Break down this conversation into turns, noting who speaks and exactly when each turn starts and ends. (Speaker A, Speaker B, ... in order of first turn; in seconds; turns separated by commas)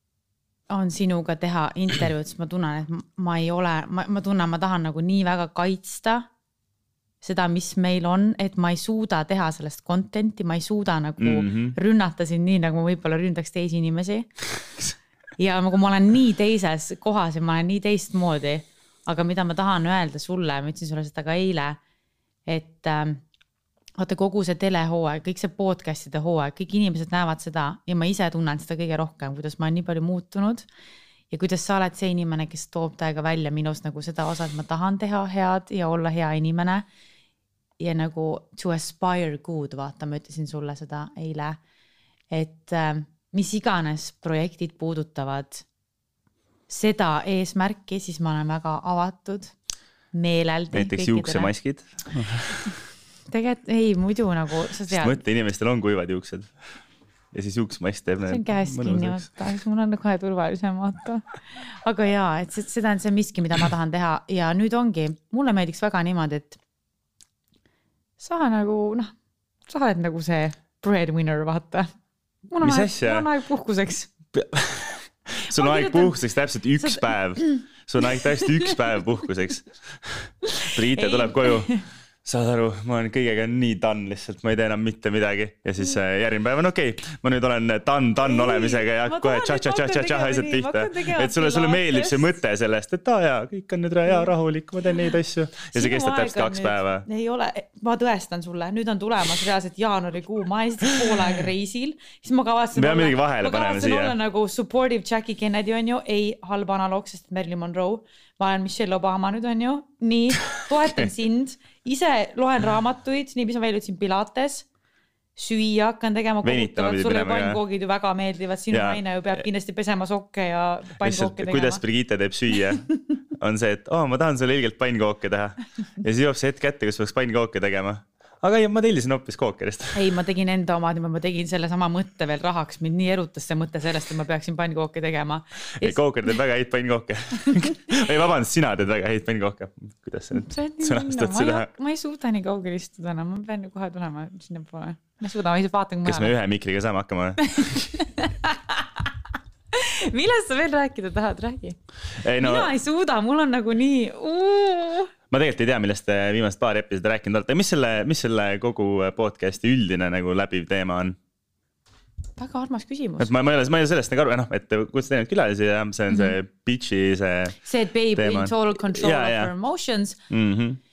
Speaker A: 0.7-6.3, Speaker A: 7.2-14.3, Speaker B: 11.2-11.8, Speaker A: 15.4-21.8, Speaker A: 22.5-23.2, Speaker A: 24.0-30.7, Speaker A: 31.3-36.9, Speaker A: 37.8-41.6, Speaker A: 42.3-45.6, Speaker A: 46.7-49.5, Speaker A: 50.1-51.5, Speaker B: 50.7-52.7, Speaker A: 53.3-55.2, Speaker B: 54.9-56.5, Speaker B: 57.3-59.3, Speaker A: 58.2-66.6, Speaker A: 68.2-69.1, Speaker A: 69.7-71.9, Speaker A: 72.5-74.1, Speaker B: 72.6-73.3, Speaker B: 74.3-81.7, Speaker A: 75.5-76.2, Speaker A: 76.8-77.6, Speaker A: 80.5-81.8, Speaker B: 82.2-97.0, Speaker A: 88.2-92.3, Speaker A: 95.7-114.7, Speaker B: 102.8-104.1, Speaker A: 115.3-121.8, Speaker B: 116.4-117.6, Speaker B: 118.7-119.4, Speaker B: 121.0-122.8, Speaker B: 123.4-130.0, Speaker A: 129.9-136.0, Speaker B: 135.8-141.7, Speaker A: 140.3-146.3, Speaker B: 146.0-147.9, Speaker A: 147.5-148.9, Speaker A: 149.7-151.8, Speaker B: 152.2-152.7, Speaker A: 152.4-155.1, Speaker B: 155.3-161.2, Speaker A: 162.4-163.3, Speaker B: 163.2-167.6, Speaker A: 166.1-166.3, Speaker A: 167.6-170.2, Speaker B: 168.2-169.5, Speaker B: 170.3-170.8